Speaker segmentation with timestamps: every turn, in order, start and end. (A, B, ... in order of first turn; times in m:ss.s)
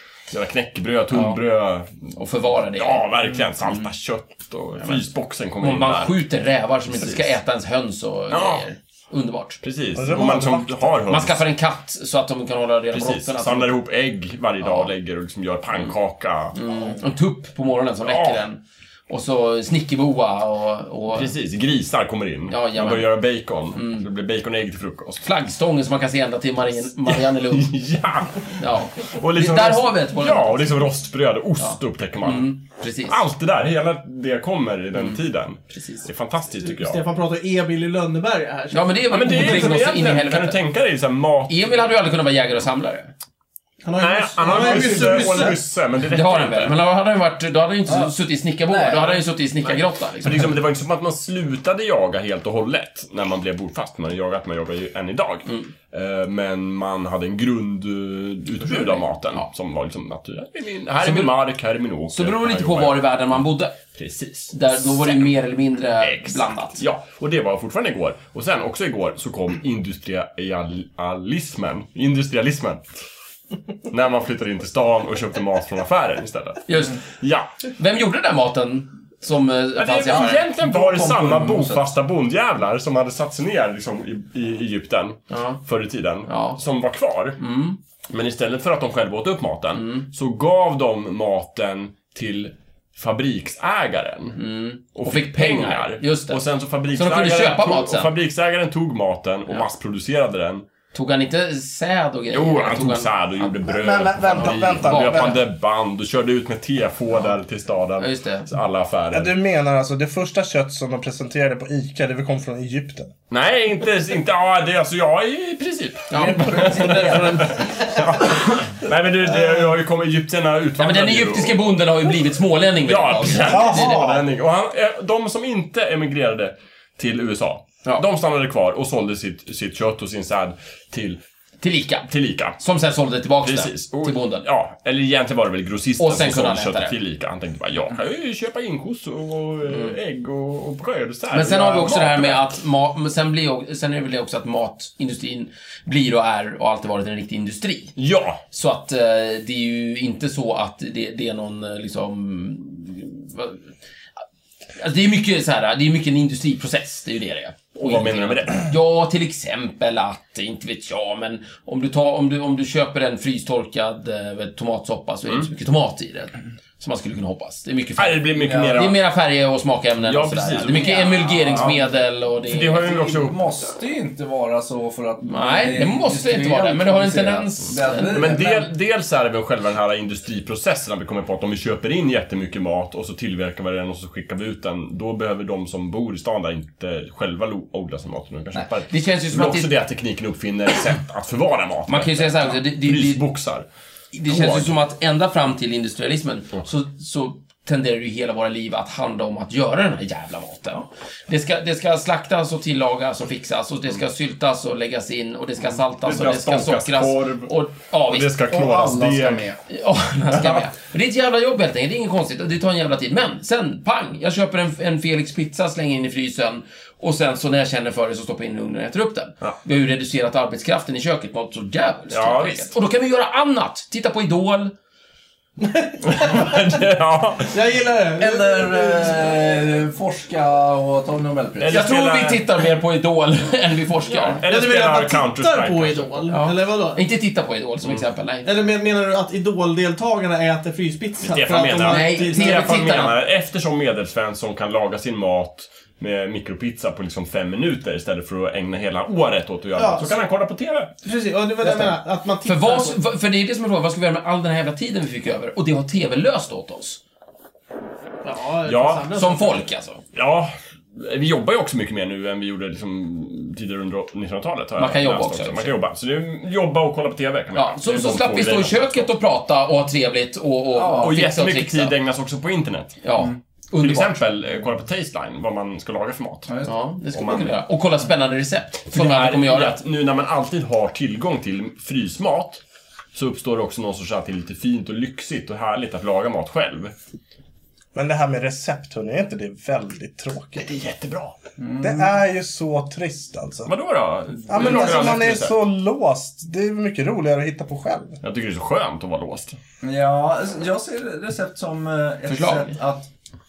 0:00.3-0:06.2 A
0:01.1-0:01.4 B
0:02.2-0:03.9 B
0:04.8-0:05.0 B
0:05.6-0:09.6 B
0:06.9-0:07.4 A
0:08.3-0:08.6 A
0:09.6-0:11.4 A
0:09.9-0:11.1 C
0:11.1-0:13.8 B
0:12.9-0:16.5 A
0:14.6-0:14.9 B
0:16.5-0:21.3 B
0:18.0-0:18.4 A
0:21.1-0:25.2 A
0:22.5-0:23.2 B
0:23.7-0:24.1 B
0:25.2-0:27.7 B
0:27.0-0:32.5 A
0:28.5-0:30.8 B
0:31.6-0:33.2 B
0:33.1-0:37.0 A
0:34.9-0:35.2 B
0:35.7-0:36.1 B
0:36.6-0:39.8 D
0:38.7-0:40.6 B
0:39.1-0:41.6 A
0:41.5-0:43.1 B
0:43.8-0:45.6 D
0:44.0-0:46.8 A
0:44.4-0:45.4 B
0:46.1-0:50.5 B
0:47.9-0:48.1 E
0:48.7-0:49.2 E
0:50.2-1:03.4 A
0:55.4-0:55.7 B
0:58.6-0:59.4 B
1:01.0-1:01.3 B
1:02.1-1:03.8 B
1:03.9-1:05.3 A
1:04.5-1:06.8 B
1:06.0-1:12.9 A
1:13.9-1:17.5 A
1:16.7-1:17.0 B
1:17.6-1:20.4 B
1:19.8-1:27.4 A
1:20.1-1:21.8 E
1:25.3-1:25.6 B
1:26.2-1:26.6 B
1:27.4-1:27.8 B
1:28.1-1:34.4 A
1:29.7-1:30.1 B
1:34.3-1:36.4 B
1:34.9-1:40.6 A
1:36.9-1:38.1 B
1:40.9-1:43.5 B
1:42.3-1:49.3 A
1:43.7-1:45.4 C
1:44.3-1:45.4 B
1:48.0-1:48.5 B
1:49.1-1:53.1 C
1:53.3-2:01.6 A
1:56.1-1:58.2 B
1:56.1-1:57.8 E
2:00.8-2:04.1 B
2:02.8-2:11.2 A
2:03.4-2:04.2 C
2:11.6-2:14.4 B
2:12.1-2:12.6 A
2:13.4-2:22.5 A
2:16.0-2:17.0 B
2:19.6-2:20.0 B
2:21.3-2:27.9 B
2:28.0-2:28.4 A
2:28.5-2:33.6 B
2:34.8-2:52.9 B
2:37.8-2:38.6 A
2:48.0-2:49.0 A
2:48.4-2:48.9 E
2:50.0-2:53.6 A
2:50.7-2:51.9 E
2:52.8-2:58.7 E
2:55.3-2:58.4 B
2:58.0-3:13.6 A
3:08.9-3:09.7 B
3:11.9-3:13.2 B
3:14.1-3:28.4 B
3:14.3-3:14.8 A
3:25.6-3:27.5 A
3:28.1-3:29.5 A
3:28.5-3:29.6 E
3:29.7-3:44.7 B
3:30.3-3:30.6 A
3:42.1-3:42.7 A
3:45.6-3:46.8 D
3:46.0-3:47.5 A
3:47.4-3:49.4 D
3:48.2-3:51.8 E
3:51.6-3:52.4 A
3:51.6-3:54.4 B
3:54.2-3:57.1 D
3:54.3-3:56.3 A
3:56.3-3:58.5 B
3:58.4-4:03.1 D
4:01.2-4:10.9 A
4:01.9-4:03.2 B
4:09.7-4:10.3 D
4:11.0-4:13.0 D
4:11.6-4:17.0 B
4:18.2-4:19.6 D
4:18.6-4:19.1 A
4:19.1-4:20.0 B
4:20.1-4:29.1 A
4:24.8-4:25.8 B
4:27.5-4:32.0 B
4:30.7-4:31.2 E
4:31.0-4:33.0 A
4:33.0-4:34.2 B
4:33.8-4:36.5 A
4:36.5-4:36.7 E
4:36.6-4:39.8 B
4:37.1-4:37.6 A
4:38.9-4:42.6 A
4:43.1-4:46.9 A
4:47.9-4:50.8 C
4:50.6-4:51.3 A
4:51.6-4:52.1 E
4:51.8-4:53.7 C
4:53.6-4:55.6 A
4:54.5-4:58.2 C
4:58.2-4:59.6 A
4:59.8-5:03.1 E
5:02.2-5:02.8 B